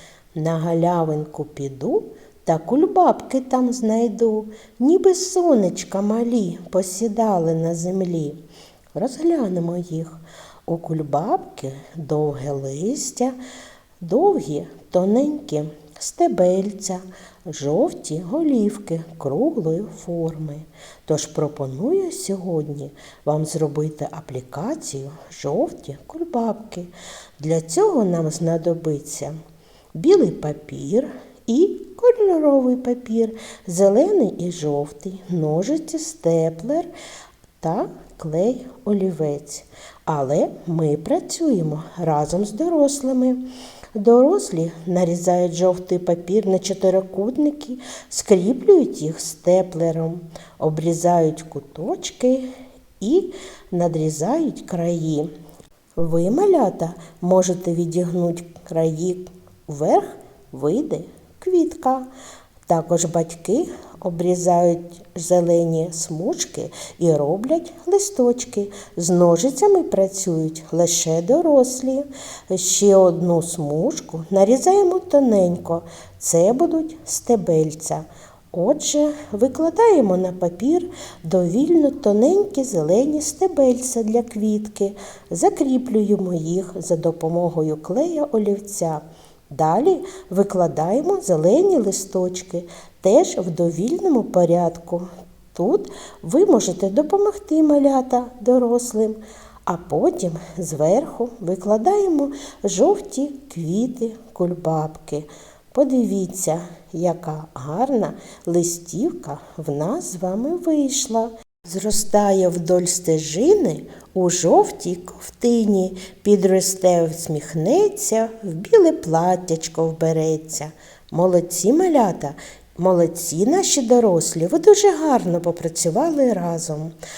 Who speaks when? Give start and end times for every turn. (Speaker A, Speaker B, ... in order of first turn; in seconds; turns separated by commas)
Speaker A: 0.3-8.4, Speaker A: 8.9-13.4, Speaker A: 14.0-29.4, Speaker A: 29.9-36.9, Speaker A: 37.6-43.4, Speaker A: 44.0-55.3, Speaker A: 56.0-62.1, Speaker A: 62.7-127.0